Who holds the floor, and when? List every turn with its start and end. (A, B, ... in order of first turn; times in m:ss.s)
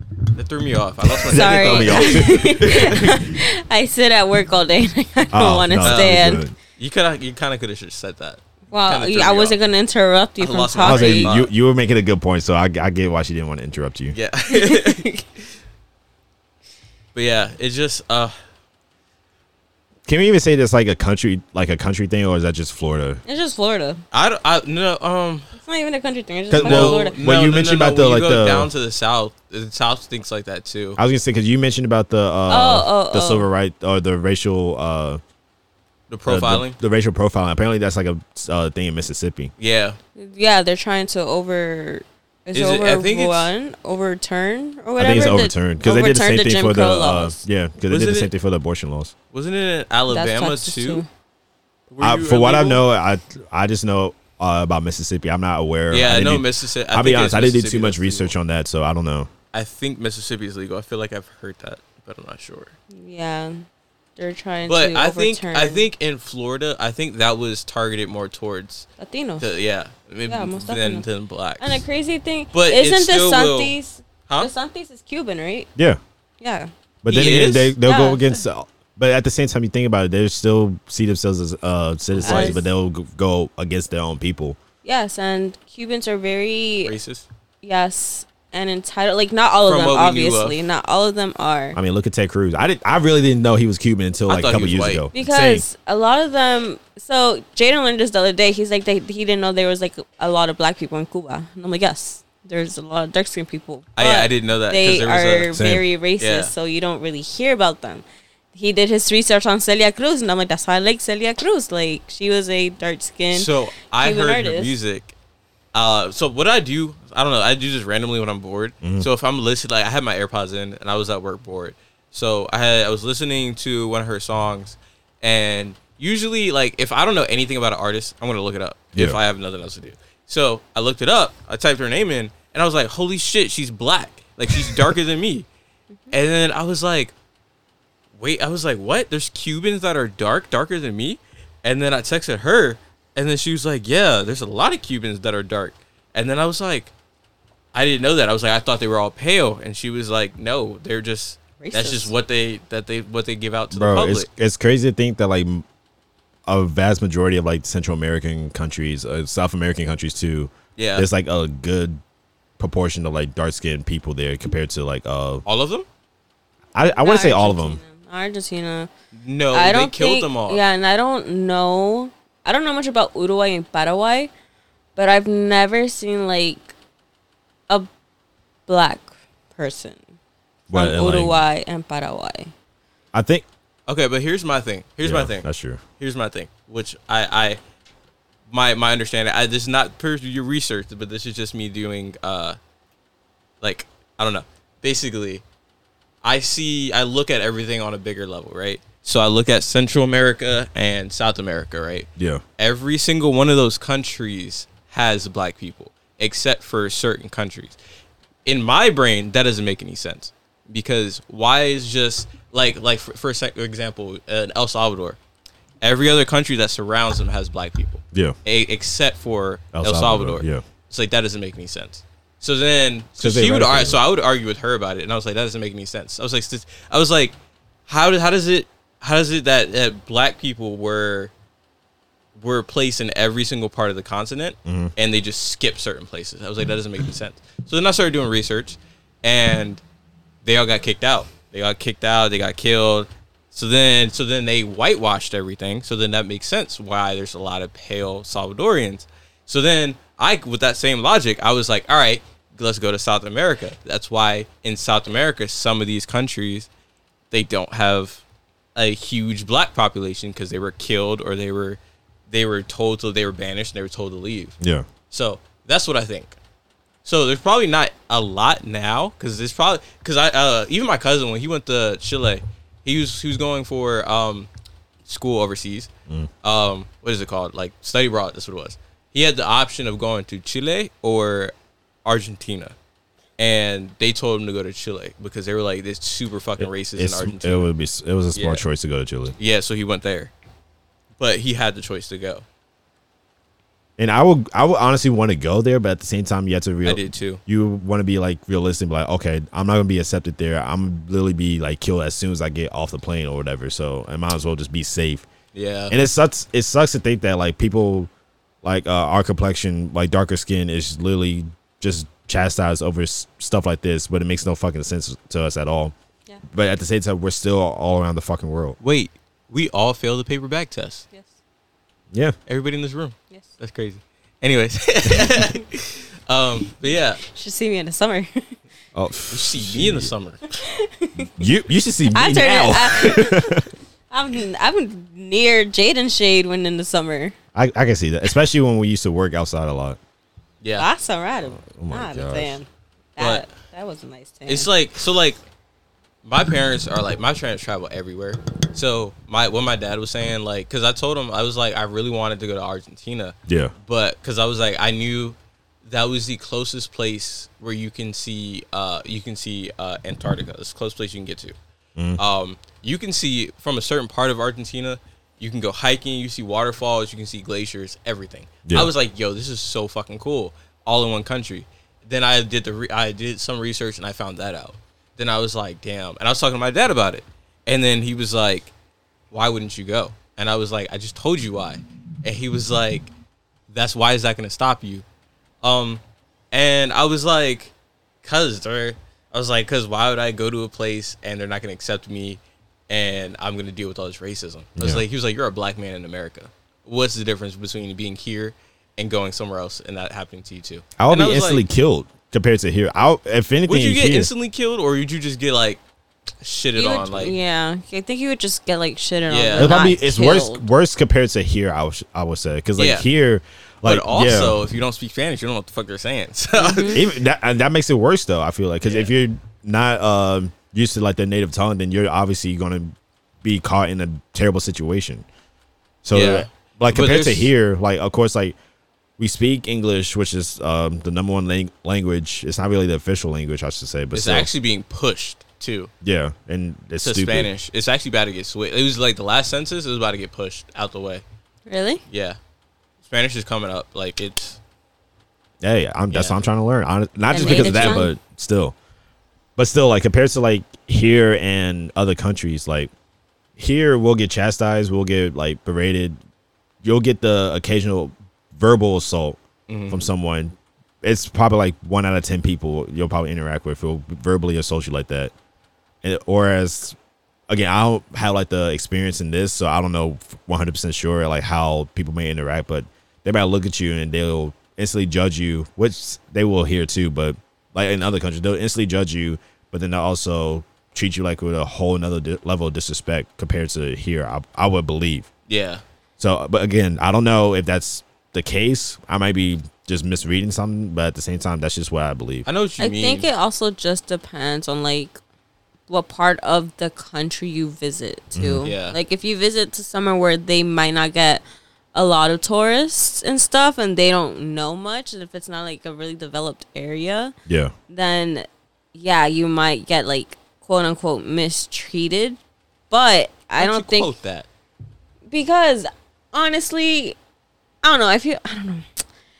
0:00.3-0:03.1 A
0:01.2-0:03.3 B
0:01.3-0:06.4 C
0:05.3-0:06.5 B
0:05.8-0:09.6 A
0:08.7-0:11.3 C
0:10.4-0:11.5 A
0:10.8-0:14.2 B
0:14.1-0:15.1 A
0:14.5-0:15.2 C
0:17.1-0:18.4 A
0:20.0-0:23.2 B
0:23.2-0:24.0 C
0:24.1-0:25.5 A
0:25.6-0:27.2 C
0:26.5-0:28.7 B
0:26.6-0:31.0 A
0:31.0-0:35.2 B
0:32.5-0:33.5 C
0:36.1-0:36.8 A
0:36.3-0:39.5 B
0:39.6-0:40.0 A
0:40.2-0:47.4 C
0:42.5-0:43.5 A
0:45.0-0:49.1 B
0:47.9-0:48.3 A
0:49.3-0:51.0 A
0:50.1-0:51.1 C
0:51.9-0:52.8 A
0:52.0-0:59.3 B
0:55.9-0:58.3 A
0:59.5-1:02.7 A
1:02.9-1:05.9 C
1:04.6-1:08.9 A
1:09.0-1:09.5 C
1:09.4-1:11.8 A
1:10.3-1:11.0 C
1:11.6-1:15.7 C
1:12.5-1:13.7 A
1:16.4-1:16.7 C
1:17.0-1:24.6 B
1:17.1-1:17.8 A
1:17.8-1:18.4 C
1:22.1-1:22.6 A
1:22.2-1:22.6 C
1:24.8-1:26.9 C
1:26.8-1:27.2 A
1:27.6-1:31.8 C
1:29.6-1:30.6 A
1:31.7-1:35.6 B
1:34.3-1:35.0 A
1:35.1-1:54.7 C
1:44.0-1:45.6 A
1:45.5-1:45.8 B
1:46.2-1:46.5 A
1:53.3-1:55.2 A
1:55.7-2:15.5 A
1:58.8-1:59.1 B
2:16.1-2:17.1 A
2:18.2-2:26.9 A
2:27.7-2:34.3 A
2:31.6-2:32.1 C
2:33.7-2:35.6 B
2:36.4-2:42.0 B
2:40.8-2:41.1 A
2:42.6-2:45.4 B
2:45.4-2:45.8 A
2:46.7-2:47.8 B
2:46.9-2:48.9 C
2:49.1-2:50.6 A
2:49.5-2:54.3 C
2:55.0-2:56.7 C
2:58.7-3:00.1 C
3:00.7-3:01.4 B
3:00.7-3:02.5 C
3:03.1-3:03.4 B
3:03.9-3:05.4 A
3:05.0-3:05.8 B
3:06.0-3:07.6 A
3:08.5-3:12.6 A
3:13.6-3:15.4 A
3:16.2-3:27.8 A
3:22.2-3:22.4 B
3:28.4-3:35.2 A
3:35.8-3:47.3 A
3:39.7-3:40.6 B
3:43.2-3:44.0 B
3:47.9-3:51.3 A
3:52.4-3:59.8 A
3:54.6-3:54.9 B
4:00.4-4:16.7 A
4:17.3-4:18.2 A
4:18.8-4:21.8 A
4:22.3-4:24.6 A
4:24.6-4:24.8 B
4:25.1-4:26.4 A
4:27.0-4:34.5 A
4:35.0-4:35.9 A
4:36.4-4:41.5 A
4:42.0-4:42.7 A
4:43.4-4:47.7 A
4:46.6-4:49.4 B
4:48.3-4:48.6 A
4:49.4-4:50.3 A
4:51.2-4:52.4 A
4:54.0-5:05.2 B
4:56.8-4:57.4 A
5:05.5-5:05.9 A
5:05.9-5:08.1 B
5:08.6-5:15.9 B
5:16.5-5:18.8 B
5:18.8-5:21.0 A
5:22.5-5:27.2 A
5:27.2-5:28.4 C
5:28.9-5:30.1 B
5:29.3-5:30.4 A
5:30.5-5:31.3 C
5:31.3-5:33.7 B
5:32.1-5:37.3 C
5:37.5-5:40.0 B
5:40.8-5:44.7 C
5:41.6-5:42.6 B
5:43.2-5:43.5 A
5:44.5-5:45.4 A
5:46.2-6:01.5 A
5:53.5-5:53.7 B
6:02.2-6:18.7 A
6:08.6-6:08.9 B
6:19.3-6:23.1 A
6:23.7-6:25.0 A
6:25.6-6:26.0 A
6:26.5-6:41.6 A
6:34.8-6:35.0 B
6:41.0-6:44.3 B
6:43.6-6:45.8 A
6:46.4-6:47.3 A
6:46.7-6:50.6 C
6:49.3-6:49.8 A
6:49.6-6:54.6 B
6:52.8-6:53.0 A
6:53.8-6:57.0 A
6:56.6-6:57.0 C
6:56.9-7:05.2 B
7:06.0-7:08.6 B
7:06.1-7:07.5 A
7:09.2-7:14.5 B
7:14.1-7:15.9 A
7:16.0-7:17.5 B
7:17.0-7:21.2 A
7:21.7-7:22.0 C
7:22.1-7:22.4 A
7:23.0-7:24.6 A
7:25.6-7:28.7 B
7:26.1-7:26.4 A
7:27.3-7:28.1 C
7:27.4-7:28.1 A
7:29.6-7:32.9 B
7:33.6-7:36.2 B
7:36.8-7:45.3 B
7:39.7-7:40.0 A
7:46.0-7:47.0 B
7:47.5-8:05.3 B
8:05.5-8:05.8 A
8:06.2-8:12.4 B
8:12.4-8:13.3 A
8:12.8-8:15.2 C
8:15.9-8:21.4 C
8:18.3-8:18.6 B
8:18.6-8:19.0 A
8:21.9-8:27.3 C
8:27.5-8:27.7 B
8:27.9-8:32.4 C
8:32.9-8:34.1 C
8:33.6-8:34.5 A
8:35.3-8:37.2 C
8:37.8-8:38.9 C